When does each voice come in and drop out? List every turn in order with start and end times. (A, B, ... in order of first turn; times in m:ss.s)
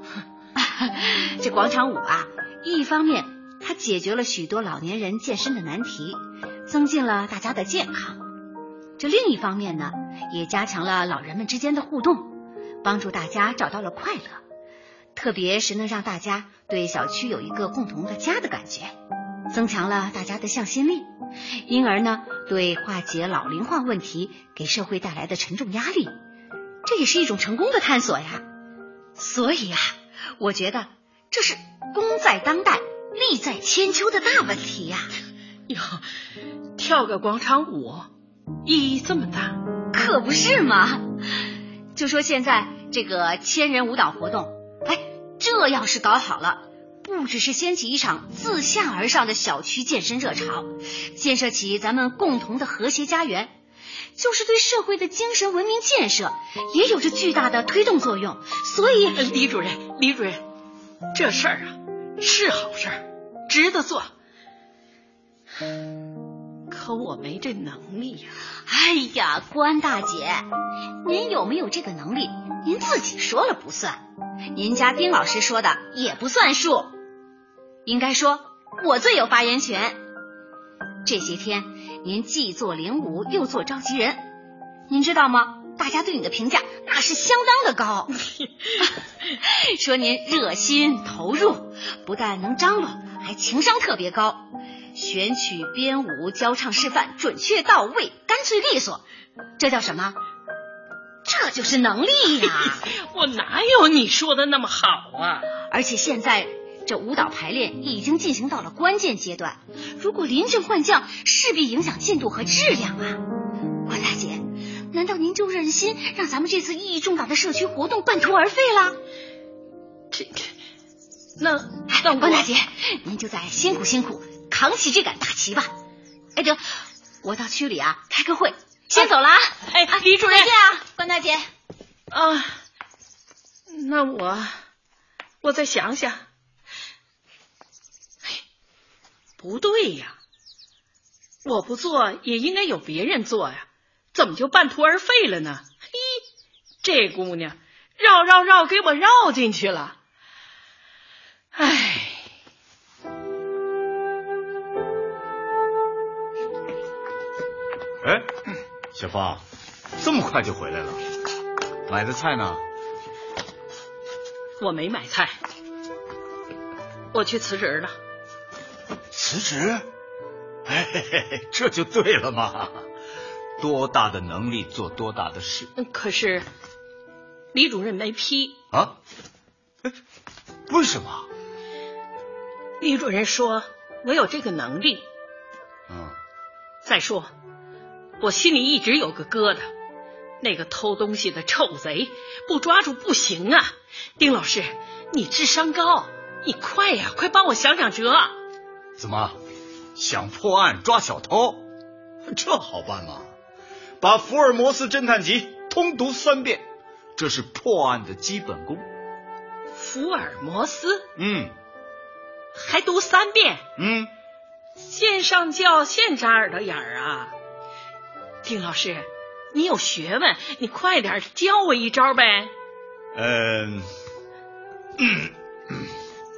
0:00.6-0:08.2 A
0:09.0-0:14.4 A
0:15.2-0:18.9 A
0:19.5-0:21.1 A
0:21.6-0:26.1 A
0:26.8-0:28.4 A
0:29.2-0:35.1 A
0:35.7-0:36.0 B
0:36.8-0:38.1 B
0:38.6-0:39.6 B
0:39.9-0:53.5 A
0:54.2-0:59.4 A
0:59.2-1:00.4 B
1:01.1-1:04.1 B
1:06.7-1:08.4 B
1:08.7-1:10.5 A
1:11.0-1:14.0 A
1:14.5-1:17.0 A
1:17.8-1:20.0 A
1:21.0-1:24.3 A
1:24.9-1:28.1 A
1:28.8-1:39.0 A
1:39.6-1:40.2 A
1:41.2-1:42.9 A
1:42.6-1:45.5 B
1:45.7-1:53.2 A
1:53.8-1:59.0 A
2:00.1-2:00.5 B
2:01.4-2:02.5 B
2:01.9-2:05.7 A
2:06.4-2:11.5 A
2:09.7-2:10.5 B
2:12.1-2:12.6 B
2:13.7-2:14.6 B
2:15.4-2:16.3 B
2:19.4-2:20.2 B
2:21.4-2:26.2 B
2:26.8-2:30.0 B
2:31.6-2:32.2 B
2:38.0-2:38.3 C
2:38.9-2:39.4 C
2:40.0-2:41.0 C
2:41.9-2:42.6 C
2:44.6-2:45.4 B
2:47.1-2:48.0 B
2:49.1-2:49.9 C
2:50.7-2:52.8 C
2:53.6-2:55.7 C
2:55.8-2:56.5 B
2:57.5-2:58.6 B
2:58.7-2:59.0 C
3:00.7-3:01.3 C
3:02.8-3:05.1 B
3:05.9-3:06.2 C
3:06.8-3:07.3 B
3:08.2-3:09.7 B
3:10.4-3:18.4 B
3:19.0-3:19.4 C
3:20.0-3:21.7 C
3:22.3-3:23.3 C
3:24.0-3:28.9 C
3:29.8-3:31.1 B
3:31.2-3:31.5 C
3:32.5-3:33.6 B
3:33.8-3:34.1 C
3:34.8-3:37.3 B
3:38.4-3:42.5 B
3:43.2-3:43.9 C
3:45.0-3:45.9 C